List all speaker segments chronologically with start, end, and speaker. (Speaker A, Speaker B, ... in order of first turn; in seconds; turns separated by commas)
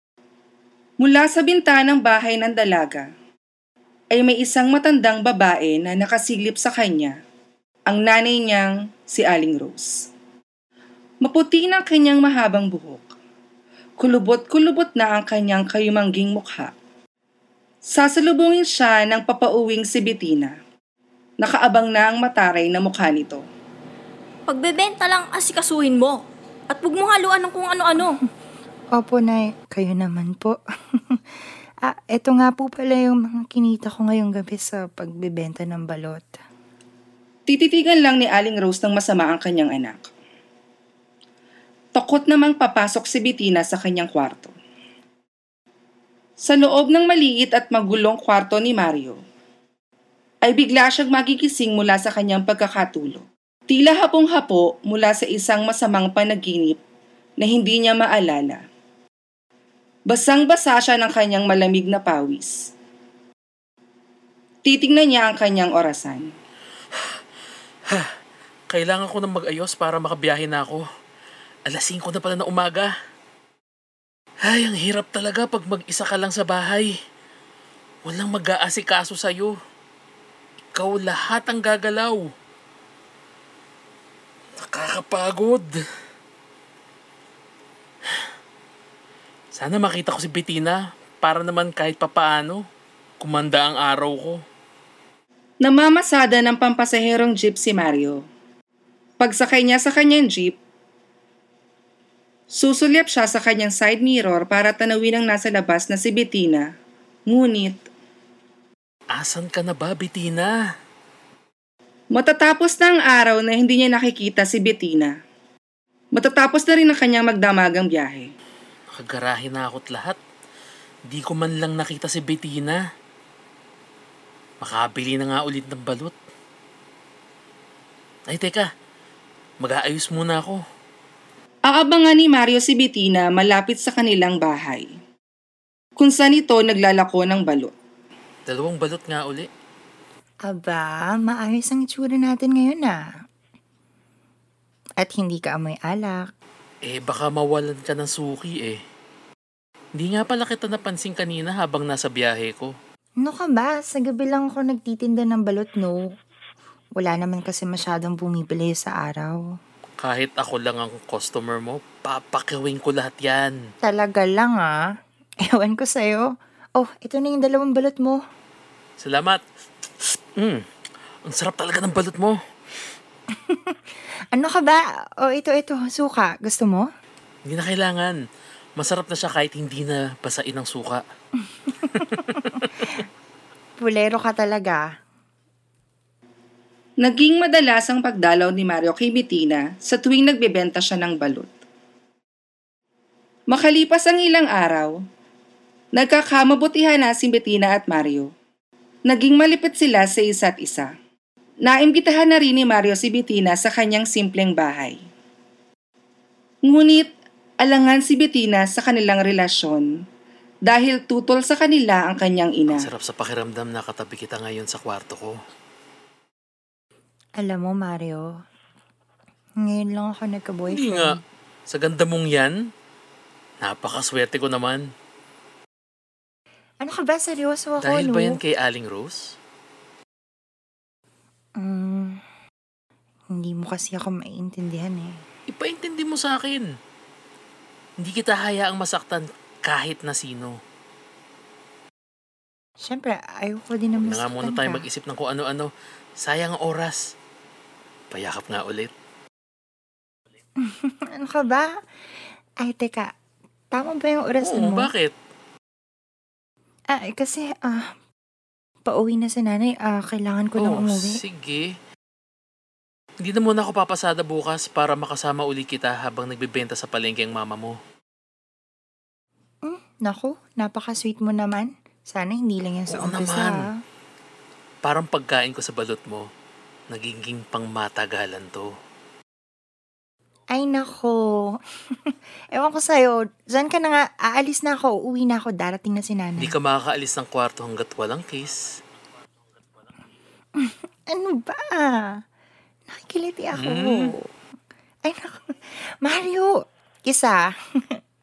Speaker A: 1.0-3.1, Speaker A: 4.1-7.1, Speaker A: 7.9-10.1, Speaker A: 11.2-13.0, Speaker A: 14.0-16.7, Speaker A: 17.9-20.5, Speaker A: 21.4-23.4, Speaker B: 24.5-28.1, Speaker C: 29.0-30.6, Speaker C: 31.9-36.4, Speaker A: 37.5-40.1, Speaker A: 42.0-44.5, Speaker A: 46.4-49.2, Speaker A: 50.4-56.8, Speaker A: 57.4-58.6, Speaker A: 60.1-62.6, Speaker A: 64.6-66.2, Speaker D: 68.7-70.8, Speaker D: 71.7-72.9, Speaker D: 74.5-76.9, Speaker D: 78.0-79.5, Speaker D: 80.8-82.2, Speaker D: 84.7-85.7, Speaker D: 89.5-92.6, Speaker D: 93.2-94.4, Speaker A: 95.6-98.2, Speaker A: 99.2-100.5, Speaker A: 102.5-106.7, Speaker A: 107.3-107.8, Speaker D: 109.1-110.5, Speaker A: 112.1-115.1, Speaker A: 116.1-118.3, Speaker D: 118.9-120.2, Speaker D: 121.1-122.8, Speaker D: 124.6-126.1, Speaker D: 128.3-128.7, Speaker D: 129.6-130.6, Speaker A: 131.7-134.9, Speaker A: 136.0-137.7, Speaker D: 138.4-139.5, Speaker C: 140.5-143.0, Speaker C: 145.0-146.2, Speaker D: 146.8-148.8, Speaker D: 150.0-152.7, Speaker C: 153.2-156.0, Speaker C: 157.0-159.4, Speaker D: 160.0-163.5, Speaker C: 163.8-164.8, Speaker C: 165.5-166.2, Speaker C: 166.8-168.2, Speaker D: 169.0-169.4, Speaker D: 171.2-172.3, Speaker C: 174.3-176.8, Speaker D: 177.4-178.2, Speaker D: 178.8-181.0, Speaker C: 181.7-182.3, Speaker C: 183.8-184.8, Speaker A: 187.0-191.5, Speaker A: 193.5-194.9, Speaker A: 195.9-198.3, Speaker A: 199.1-200.9, Speaker A: 201.7-205.0, Speaker A: 206.7-207.1, Speaker A: 207.6-209.9, Speaker A: 210.7-212.9, Speaker D: 212.7-215.3, Speaker C: 217.4-218.3, Speaker C: 219.7-221.2, Speaker D: 220.7-221.2, Speaker D: 221.7-222.5, Speaker D: 223.6-224.8, Speaker C: 226.8-228.4, Speaker D: 227.8-229.2, Speaker C: 231.6-232.2, Speaker C: 233.3-235.1, Speaker D: 235.5-236.7, Speaker D: 238.0-240.5, Speaker C: 242.8-244.8, Speaker D: 244.0-245.7, Speaker D: 246.2-247.0, Speaker D: 248.1-248.9, Speaker C: 250.7-251.7, Speaker C: 252.6-253.1, Speaker C: 253.7-254.9, Speaker D: 254.4-255.1, Speaker C: 256.9-257.9, Speaker C: 258.9-261.1, Speaker D: 260.6-261.7, Speaker D: 263.2-267.7, Speaker C: 269.6-273.7, Speaker D: 272.9-273.6, Speaker D: 274.8-276.2, Speaker D: 276.9-278.7, Speaker C: 280.5-281.2, Speaker C: 282.1-286.5, Speaker D: 286.4-288.6, Speaker C: 290.6-292.1, Speaker C: 292.9-294.1, Speaker D: 293.6-294.1, Speaker C: 295.1-295.5, Speaker C: 296.0-296.5, Speaker C: 297.1-297.4